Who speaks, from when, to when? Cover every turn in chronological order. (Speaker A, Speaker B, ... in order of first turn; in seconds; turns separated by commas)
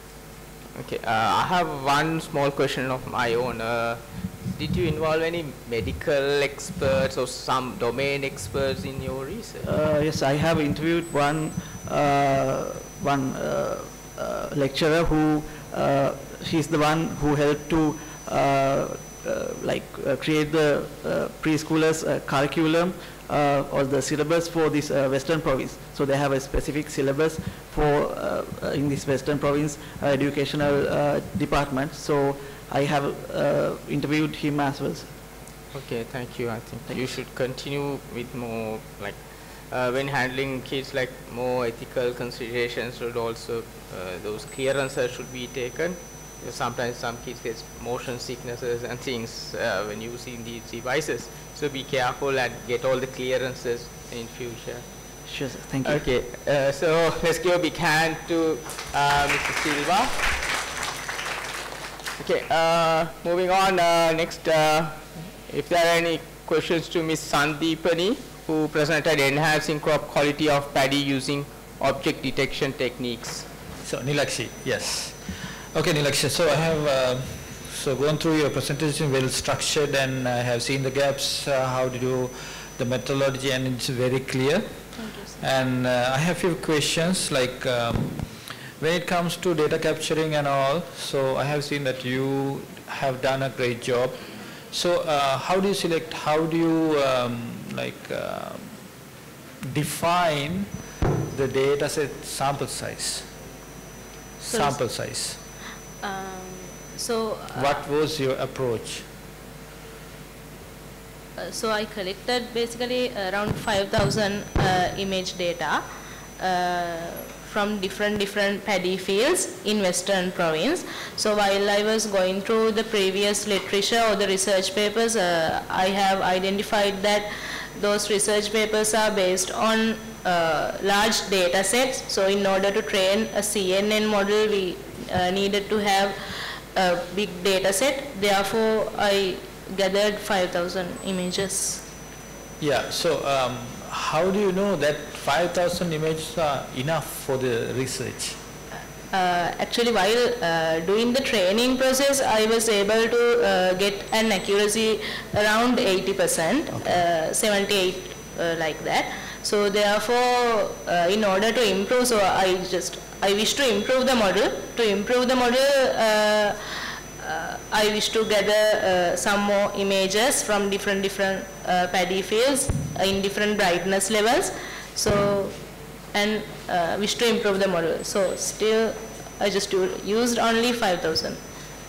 Speaker A: 0.7-9.7, Speaker B: 9.6-35.1, Speaker A: 35.7-54.9, Speaker B: 55.3-56.0, Speaker A: 55.8-60.3, Speaker A: 62.2-73.5, Speaker C: 73.8-98.8, Speaker D: 85.0-85.4, Speaker C: 99.6-100.7, Speaker C: 101.3-103.3, Speaker C: 104.4-105.4, Speaker D: 104.5-104.9, Speaker D: 106.0-107.8, Speaker C: 107.5-109.1, Speaker D: 111.4-115.8, Speaker D: 116.4-136.2, Speaker D: 136.7-141.8, Speaker C: 142.6-148.4, Speaker D: 149.1-175.6, Speaker D: 176.1-181.4